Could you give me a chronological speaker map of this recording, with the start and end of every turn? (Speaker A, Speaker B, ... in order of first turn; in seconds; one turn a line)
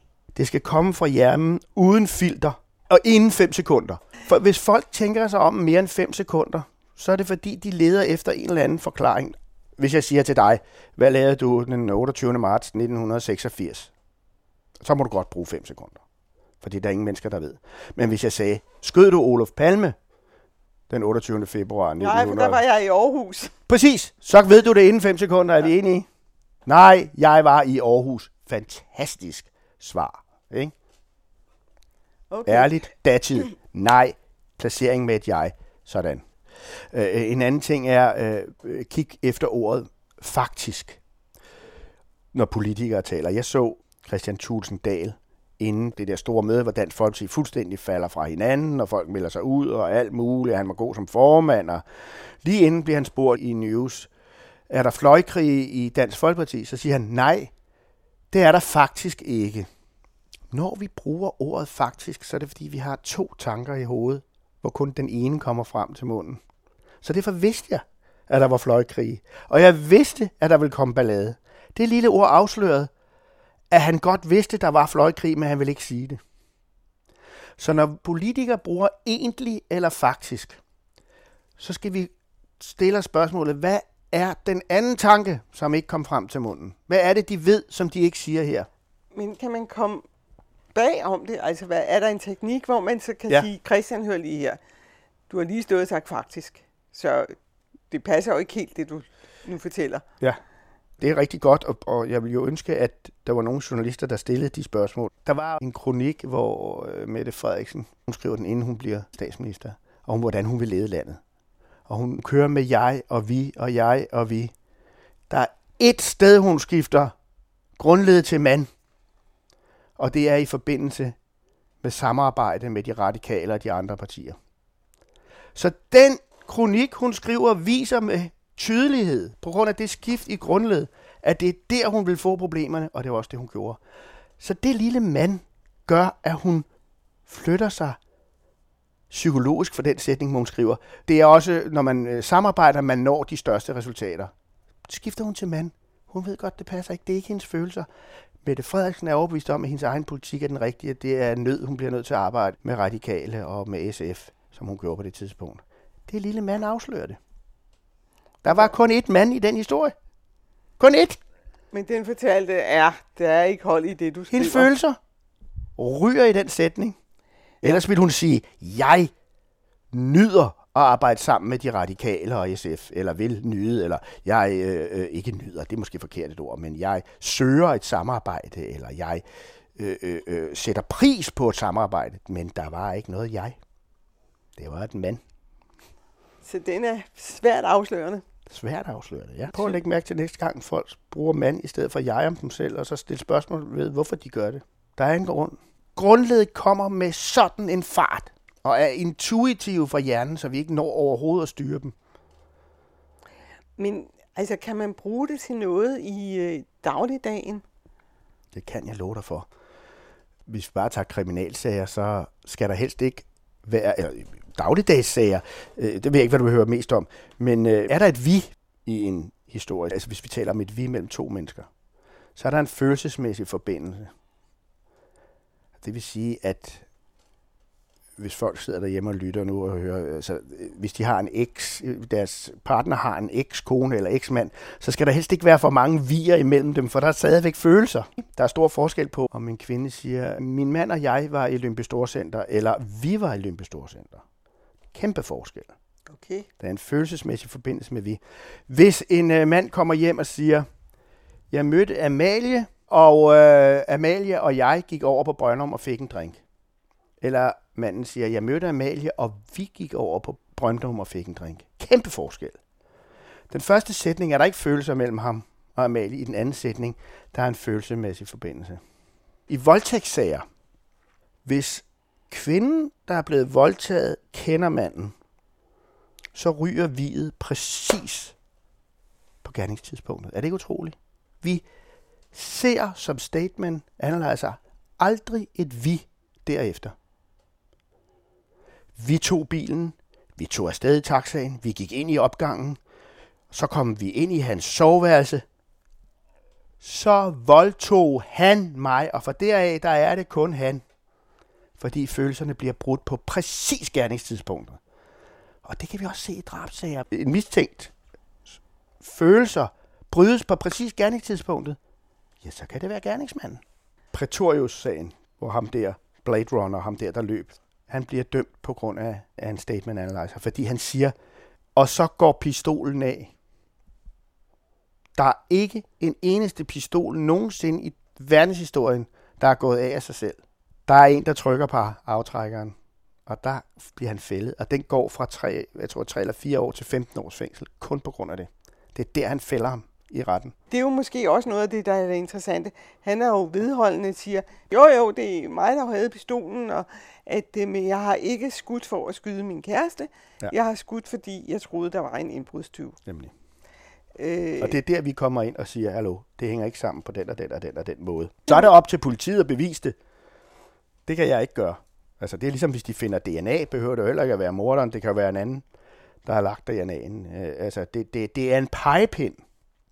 Speaker A: 0.3-13.9
Speaker A: 14.8-16.0
Speaker A: 16.6-19.9
Speaker A: 20.9-22.6
Speaker B: 22.0-23.5
Speaker A: 23.7-26.1
Speaker A: 26.6-30.7
Speaker B: 32.3-32.8
Speaker A: 32.5-41.0
Speaker A: 42.3-54.1
Speaker A: 54.7-57.5
Speaker A: 58.3-59.7
Speaker A: 60.5-66.4
Speaker A: 67.0-72.9
Speaker A: 73.7-76.2
Speaker A: 77.6-80.6
Speaker A: 81.6-88.7
Speaker B: 89.1-90.0
Speaker B: 90.7-94.6
Speaker B: 95.3-97.3
Speaker B: 97.9-100.0
Speaker A: 101.0-111.2
Speaker A: 111.9-114.5
Speaker A: 115.3-117.1
Speaker A: 117.8-118.7
Speaker A: 120.0-121.2
Speaker A: 121.8-124.4
Speaker A: 125.5-133.8
Speaker A: 134.4-136.7
Speaker A: 137.2-138.0
Speaker A: 139.1-144.3
Speaker A: 144.8-147.9
Speaker A: 148.4-157.2
Speaker A: 158.4-159.9
Speaker A: 160.8-161.2
Speaker B: 161.7-164.7
Speaker A: 164.3-165.0
Speaker A: 165.8-167.0
Speaker A: 167.6-169.1
Speaker A: 169.9-179.2
Speaker A: 179.8-183.6
Speaker A: 184.6-185.2
Speaker B: 186.4-188.2
Speaker A: 188.5-201.9
Speaker B: 203.8-207.6
Speaker A: 208.5-209.5
Speaker A: 210.5-221.7
Speaker A: 222.3-224.1
Speaker A: 225.8-226.8
Speaker A: 228.2-244.2
Speaker A: 244.9-245.7
Speaker B: 246.1-246.5
Speaker A: 246.6-250.7
Speaker A: 251.5-256.4
Speaker A: 257.2-262.6
Speaker A: 263.5-268.8
Speaker A: 269.5-270.4
Speaker A: 271.4-275.1
Speaker A: 276.3-278.3
Speaker A: 279.4-281.6
Speaker A: 282.3-286.9
Speaker A: 289.0-292.8
Speaker A: 293.5-295.4
Speaker A: 296.8-300.8
Speaker A: 301.8-304.8
Speaker A: 305.6-307.9
Speaker A: 309.0-311.8
Speaker A: 312.4-321.1
Speaker A: 321.8-323.3
Speaker A: 325.1-340.5
Speaker B: 340.7-353.0
Speaker A: 353.1-353.3
Speaker B: 354.1-354.8
Speaker A: 354.6-359.9
Speaker A: 361.1-365.6
Speaker A: 366.2-369.4